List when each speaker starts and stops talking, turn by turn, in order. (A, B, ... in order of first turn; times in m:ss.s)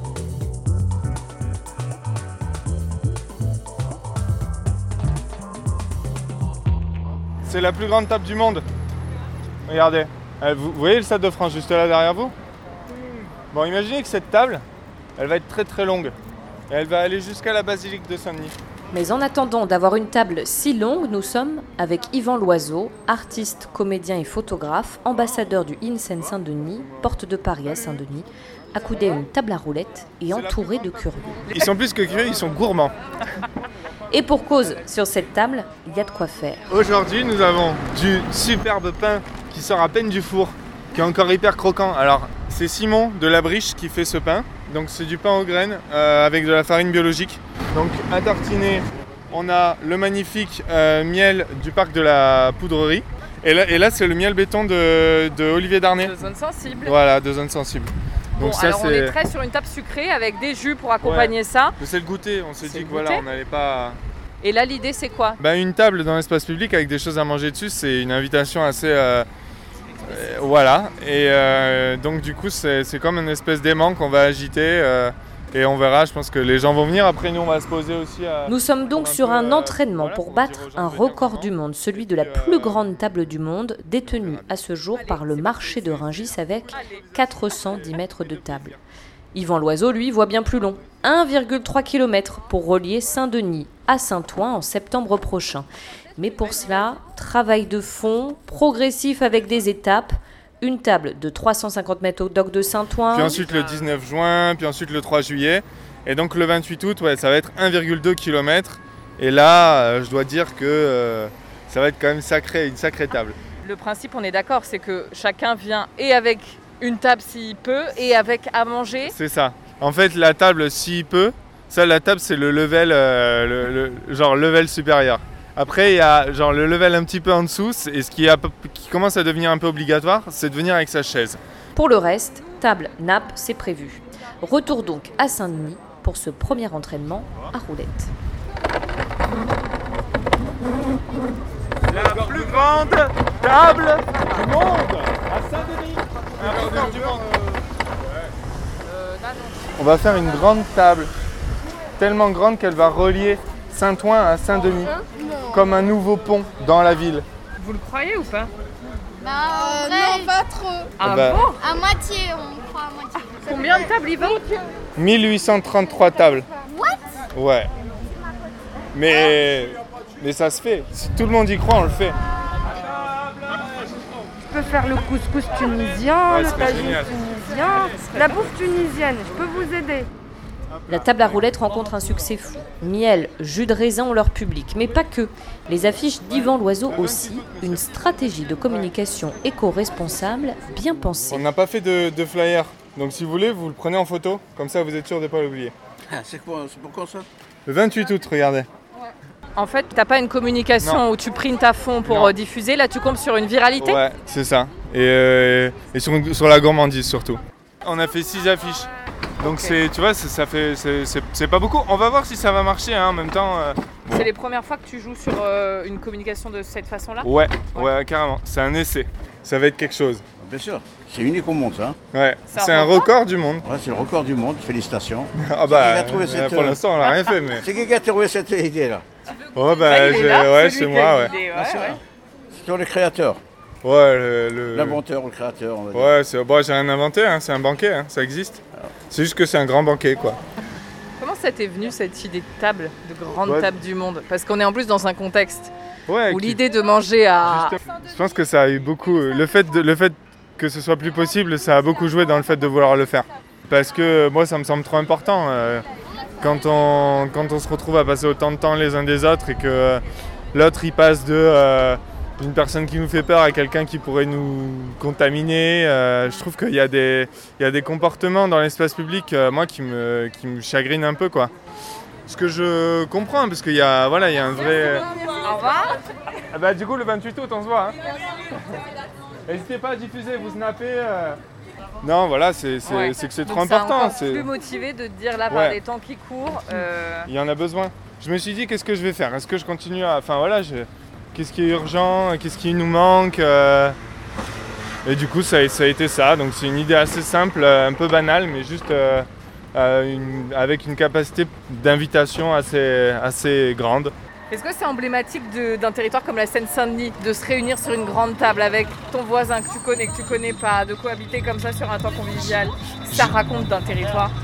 0:07.4-0:08.6 A
0:09.7-0:12.3 A
0:13.5-0:14.6 A
0:15.2-0:16.1 A
0:16.7-0:18.6 A
0:18.9-0:31.4 B
0:30.3-0:32.9 A
0:31.5-0:31.7 C
0:34.1-0:36.7 B
0:36.7-0:56.1 A
0:56.0-0:57.0 C
0:56.8-0:59.2 A
0:58.4-1:01.8 C
1:01.0-1:04.0 A
1:02.6-1:03.2 C
1:04.4-1:05.4 C
1:05.4-1:09.3 A
1:10.0-1:22.8 A
1:18.4-1:28.8 B
1:24.0-1:24.5 A
1:27.3-1:28.8 A
1:29.3-1:43.4 B
1:43.1-1:53.4 A
1:43.4-1:44.0 C
1:53.6-1:59.1 C
1:59.1-2:11.4 A
2:11.7-2:18.1 B
2:21.9-2:27.3 A
2:28.8-2:29.7 C
2:29.8-2:31.1 A
2:32.0-2:34.9 A
2:35.2-2:35.5 D
2:35.5-2:37.2 A
2:37.6-2:38.5 C
2:39.2-2:40.8 D
2:39.8-2:40.3 C
2:41.0-2:41.6 C
2:41.0-2:41.4 A
2:41.6-2:43.1 D
2:43.3-2:44.4 C
2:45.0-2:46.5 A
2:47.3-2:47.7 A
2:48.9-2:52.2 A
2:54.4-3:00.1 E
2:56.2-2:57.2 A
3:00.9-3:11.4 B
3:06.8-3:08.8 A
3:11.3-3:15.7 A
3:16.1-3:17.2 F
3:17.6-3:18.7 A
3:19.6-3:24.0 C
3:22.0-3:22.3 A
3:23.8-3:34.3 A
3:29.4-3:29.8 C
3:34.1-3:37.9 C
3:37.2-3:40.2 A
3:40.4-3:42.0 F
3:42.1-3:43.6 A
3:42.5-3:43.1 C
3:43.6-3:46.8 F
3:45.4-3:47.6 A
3:47.5-3:49.0 F
3:49.5-3:51.3 A
3:49.8-3:52.0 C
3:51.5-3:52.0 F
3:52.5-3:53.4 F
3:53.8-3:55.0 A
3:54.7-3:56.1 F
3:55.9-4:00.4 A
4:01.2-4:05.7 C
4:03.4-4:03.7 A
4:06.1-4:06.6 A
4:06.3-4:07.7 C
4:07.4-4:15.8 A
4:16.4-4:31.5 A
4:32.3-4:35.1 A
4:35.1-4:36.0 C
4:36.5-4:38.0 A
4:39.4-4:41.4 A
4:42.0-4:44.5 A
4:42.8-4:47.3 C
4:45.5-4:45.8 A
4:47.3-4:54.0 A
4:55.0-5:04.1 A
5:04.5-5:14.3 C
5:13.1-5:13.3 A